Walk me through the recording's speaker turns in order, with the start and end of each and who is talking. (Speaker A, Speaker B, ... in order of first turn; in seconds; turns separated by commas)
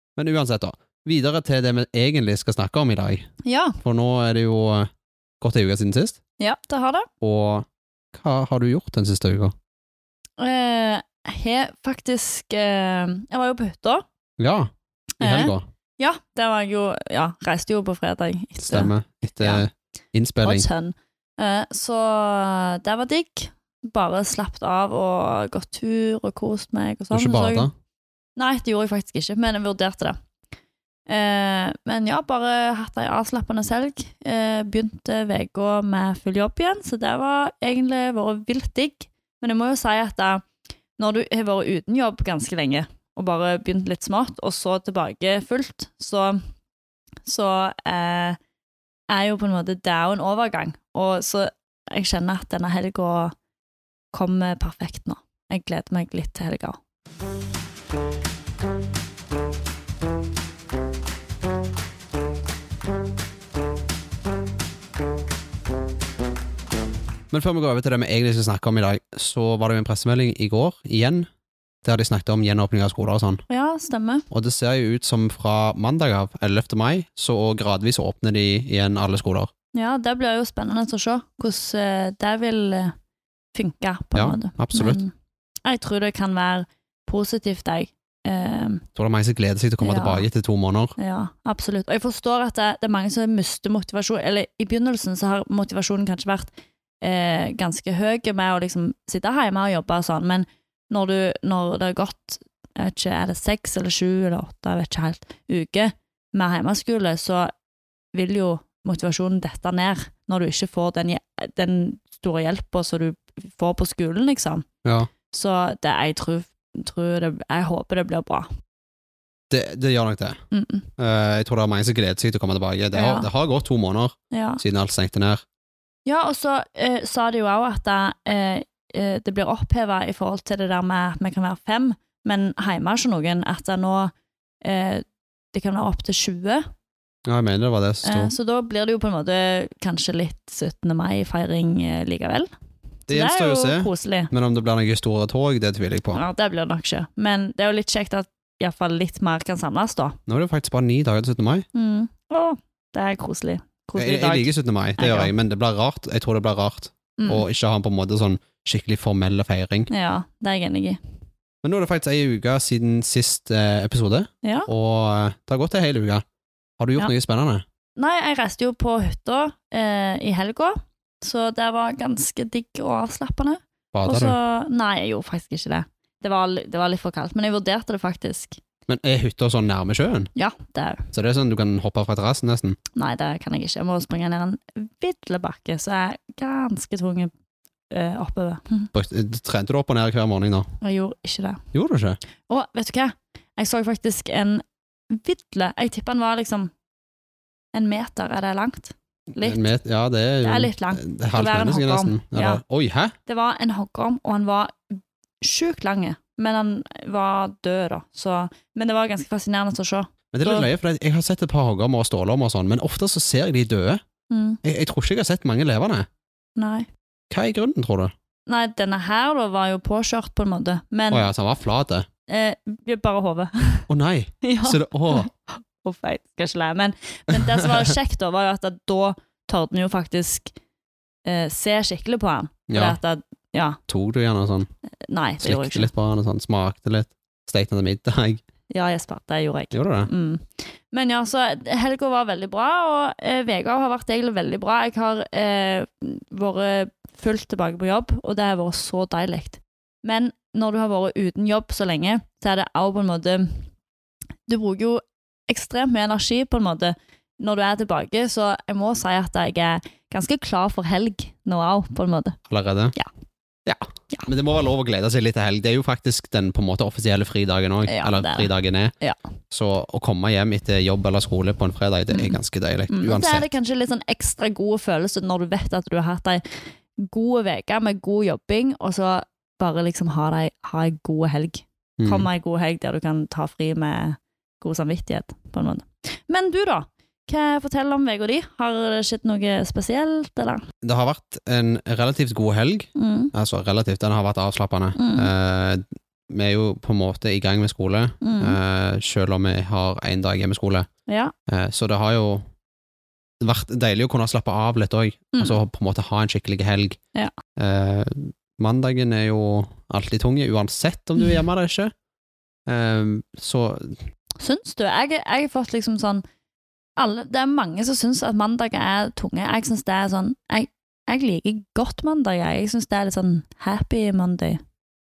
Speaker A: 0.2-3.3, Speaker B: 3.5-3.8, Speaker A: 3.8-4.9, Speaker A: 5.4-6.2, Speaker B: 6.4-7.1, Speaker A: 7.2-9.6, Speaker B: 10.4-14.1, Speaker A: 14.4-14.7, Speaker A: 15.2-15.7, Speaker B: 15.2-19.6, Speaker A: 18.6-20.7, Speaker B: 20.4-27.7, Speaker A: 27.1-27.7, Speaker B: 28.4-30.2, Speaker B: 31.1-40.5, Speaker B: 41.0-46.4, Speaker B: 47.3-48.4, Speaker B: 49.1-53.4, Speaker B: 54.1-56.8, Speaker A: 67.3-71.3, Speaker A: 71.8-73.4, Speaker B: 73.5-74.3, Speaker A: 74.3-79.5, Speaker B: 79.7-83.0, Speaker B: 83.5-85.1, Speaker A: 84.1-85.0, Speaker B: 85.7-88.8, Speaker A: 89.0-91.0, Speaker B: 89.8-90.3, Speaker B: 91.0-96.5, Speaker B: 97.0-107.5, Speaker B: 108.1-114.7, Speaker A: 114.8-115.1, Speaker B: 115.3-118.5, Speaker A: 119.5-120.4, Speaker B: 120.5-120.9, Speaker A: 121.0-125.4, Speaker B: 122.9-123.3, Speaker B: 124.3-124.6, Speaker B: 126.1-136.7, Speaker A: 137.3-138.3, Speaker B: 138.0-142.5, Speaker B: 143.1-144.3, Speaker A: 143.1-146.2, Speaker B: 146.1-150.2, Speaker A: 150.3-151.7, Speaker B: 151.7-155.3, Speaker A: 154.0-159.9, Speaker B: 157.2-157.4, Speaker B: 159.9-161.0, Speaker A: 161.6-166.2, Speaker B: 164.4-164.7, Speaker A: 166.8-167.6, Speaker B: 168.0-178.6, Speaker A: 173.9-174.4, Speaker A: 178.9-180.3, Speaker B: 180.3-181.0, Speaker A: 181.1-182.8, Speaker B: 183.0-187.3, Speaker B: 187.9-188.9, Speaker A: 188.9-190.7, Speaker B: 190.8-191.6, Speaker A: 191.7-192.2, Speaker B: 192.5-196.7, Speaker B: 197.7-199.7, Speaker A: 199.4-203.1, Speaker B: 200.4-202.6, Speaker B: 203.3-204.8, Speaker B: 205.4-210.7, Speaker A: 210.3-214.0, Speaker B: 214.3-214.6, Speaker A: 214.6-216.1, Speaker B: 216.6-216.9, Speaker A: 217.3-218.1, Speaker B: 218.5-221.3, Speaker A: 221.1-222.1, Speaker B: 222.3-223.9, Speaker A: 223.9-225.3, Speaker B: 224.4-230.5, Speaker B: 231.2-233.8, Speaker A: 232.7-233.0, Speaker A: 233.9-234.7, Speaker B: 235.1-235.9, Speaker A: 235.4-238.4, Speaker B: 238.7-253.7, Speaker A: 239.7-240.1, Speaker B: 254.5-262.4, Speaker A: 262.5-262.9, Speaker A: 263.7-268.9, Speaker B: 267.9-269.2, Speaker A: 269.5-273.5, Speaker B: 272.1-272.4, Speaker B: 272.9-290.6, Speaker A: 282.0-282.3, Speaker A: 290.8-300.9, Speaker B: 293.0-293.3, Speaker B: 295.0-295.3, Speaker B: 298.2-298.6, Speaker B: 301.1-301.3, Speaker A: 301.5-302.4, Speaker A: 303.4-307.0, Speaker A: 307.6-311.9, Speaker A: 312.7-314.0, Speaker B: 314.4-316.2, Speaker B: 317.0-324.6